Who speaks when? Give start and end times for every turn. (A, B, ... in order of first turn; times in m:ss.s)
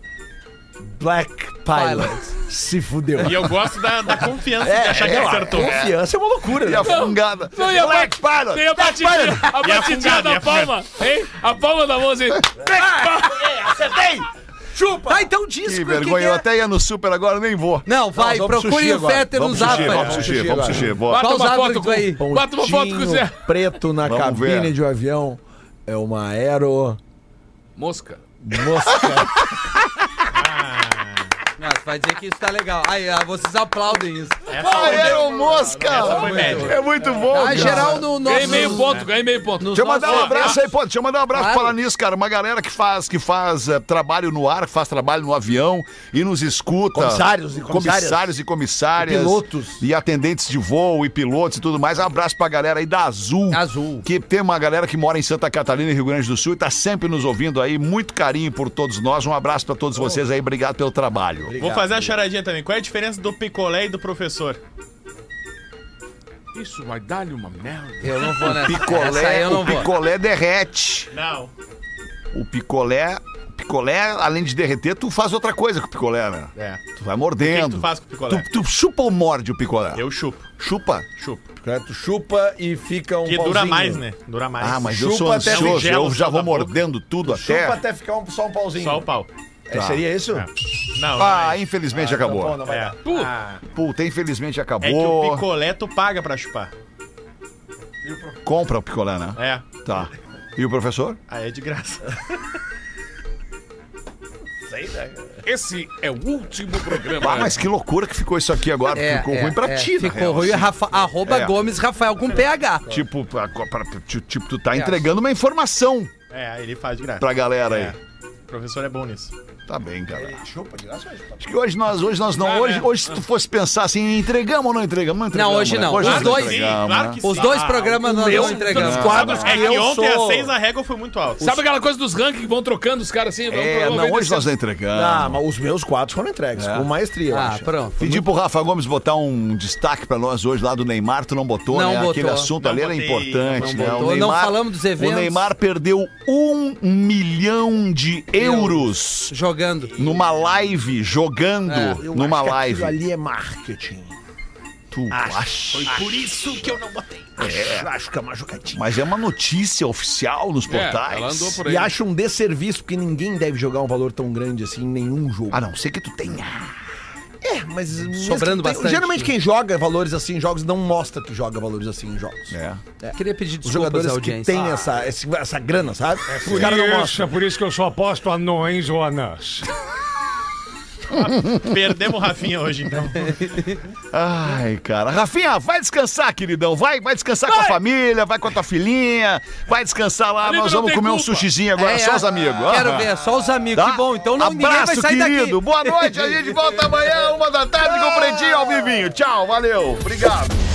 0:00.8-0:03.6 A
0:01.7-0:02.3 B
0:03.2-0:05.8 C
0:04.6-0:07.0 A
0:04.8-0:05.9 D
0:06.6-0:08.9 D
0:06.8-0:13.6 E
0:08.7-0:09.5 A
0:09.6-0:10.8 C
0:12.6-0:15.3 A
0:15.1-0:16.4 B
0:15.6-0:17.9 D
0:17.9-0:20.5 B
0:18.1-0:21.0 A
0:19.4-0:21.3 D
0:19.8-0:20.3 C
0:21.1-0:23.5 E
0:21.1-0:22.3 B
0:22.2-0:27.0 A
0:24.0-0:24.7 D
0:27.8-0:28.2 E
0:28.4-0:29.4 A
0:29.0-0:29.3 D
0:30.3-0:31.3 C
0:31.6-0:34.6 B
0:34.5-0:37.3 C
0:34.6-0:38.6 D
0:35.6-0:36.2 E
0:35.9-0:38.9 B
0:37.6-0:37.9 A
0:37.6-0:40.5 E
0:38.8-0:39.1 C
0:39.6-0:40.6 B
0:39.7-1:01.6 D
0:40.0-0:40.6 C
0:41.3-0:41.8 B
0:46.9-0:48.3 A
0:48.9-0:49.8 A
0:53.5-0:54.1 B
1:01.5-1:02.2 A
1:01.6-1:04.6 C
1:06.5-1:08.6 E
1:08.0-1:09.9 B
1:08.4-1:11.1 D
1:11.1-1:11.5 C
1:12.3-1:20.1 D
1:16.6-1:16.8 C
1:17.4-1:18.5 C
1:20.0-1:20.5 C
1:20.6-1:21.1 D
1:21.2-1:21.5 C
1:21.6-1:24.0 A
1:23.2-1:24.9 C
1:24.6-1:27.8 D
1:24.9-1:25.9 A
1:25.4-1:26.8 C
1:27.2-1:29.1 A
1:28.8-1:29.3 C
1:29.7-1:30.5 A
1:29.7-1:30.2 D
1:30.3-1:31.8 C
1:31.1-1:32.6 D
1:31.9-1:33.0 A
1:32.6-1:33.6 C
1:33.0-1:33.3 E
1:33.6-1:35.5 D
1:34.8-1:36.7 C
1:38.0-1:38.4 A
1:38.4-1:41.2 D
1:39.4-1:39.8 C
1:41.3-1:42.4 C
1:44.7-1:45.4 A
1:45.4-1:47.6 E
1:47.2-1:51.5 D
1:48.9-1:52.9 B
1:52.9-1:56.1 D
1:54.7-1:55.1 B
1:56.3-1:58.0 C
1:57.2-1:58.0 D
1:58.5-1:59.3 C
1:59.7-2:00.4 D
2:00.1-2:01.6 A
2:01.4-2:07.2 D
2:02.4-2:03.2 E
2:05.3-2:09.3 B
2:05.9-2:11.6 C
2:08.0-2:10.5 A
2:08.7-2:09.6 D
2:11.4-2:14.5 E
2:13.5-2:15.4 D
2:14.9-2:18.3 A
2:16.6-2:16.9 D
2:17.3-2:18.0 B
2:18.0-2:29.3 D
2:21.7-2:22.5 B
2:22.6-2:24.3 C
2:23.9-2:25.5 B
2:28.4-2:29.9 B
2:29.9-2:30.8 A
2:30.0-2:33.0 D
2:31.7-2:32.0 B
2:32.0-2:34.2 A
2:34.9-2:35.9 D
2:35.1-2:38.8 A
2:35.9-2:36.4 C
2:37.4-2:37.9 D
2:38.7-2:41.6 D
2:40.7-2:41.9 E
2:41.6-2:45.6 A
2:45.5-2:46.8 D
2:47.4-2:57.3 A
2:48.2-2:49.3 B
2:52.5-2:52.8 D
2:53.2-2:54.6 B
2:56.3-2:59.7 F
3:01.1-3:03.6 C
3:01.1-3:01.7 D
3:03.4-3:03.8 B
3:04.1-3:13.1 D
3:07.5-3:07.8 E
3:10.4-3:11.5 E
3:11.8-3:16.3 B
3:13.7-3:20.6 D
3:18.1-3:18.7 A